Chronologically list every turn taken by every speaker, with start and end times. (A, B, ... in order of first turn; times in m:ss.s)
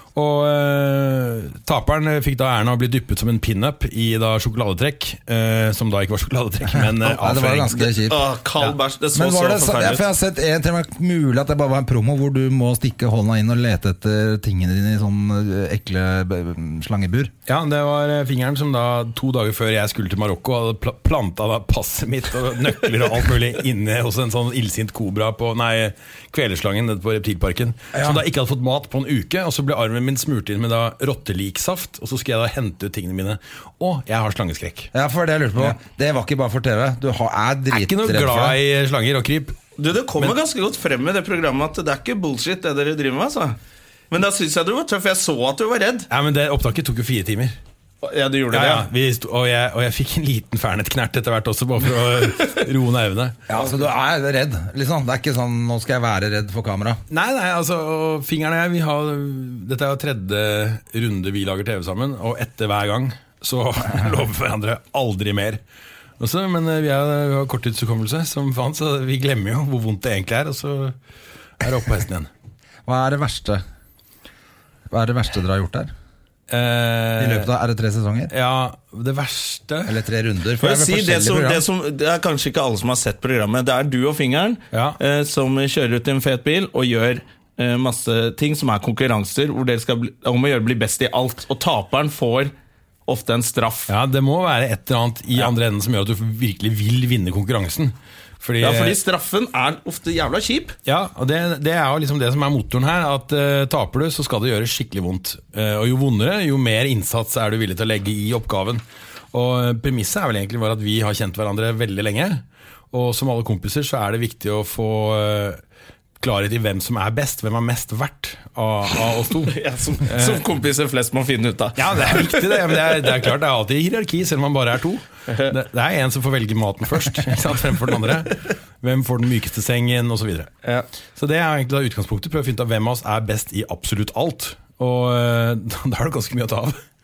0:00.2-0:08.0 A
0:06.8-0:08.2 B
0:08.0-0:10.0 C
0:09.1-0:17.3 B
0:17.5-0:34.9 A
0:27.9-0:28.2 B
0:34.9-0:38.6 B
0:37.7-0:39.6 A
0:39.8-0:43.6 C
0:44.1-0:46.1 C
0:46.1-0:47.6 A
0:48.0-0:48.9 C
0:48.5-0:53.4 A
0:53.5-0:57.0 B
0:57.1-1:05.6 A
1:06.2-1:11.0 A
1:11.6-1:12.3 A
1:12.9-1:13.6 B
1:14.9-1:15.9 B
1:16.5-1:17.5 A
1:17.2-1:18.3 B
1:18.3-1:20.0 A
1:19.9-1:21.6 B
1:20.6-1:32.5 C
1:24.7-1:25.0 A
1:33.1-1:33.9 C
1:33.9-1:39.0 A
1:38.6-1:40.8 C
1:40.9-1:48.8 A
1:49.3-1:55.6 A
1:56.2-2:00.4 A
1:59.3-2:03.2 C
2:01.8-2:10.5 A
2:11.2-2:16.8 A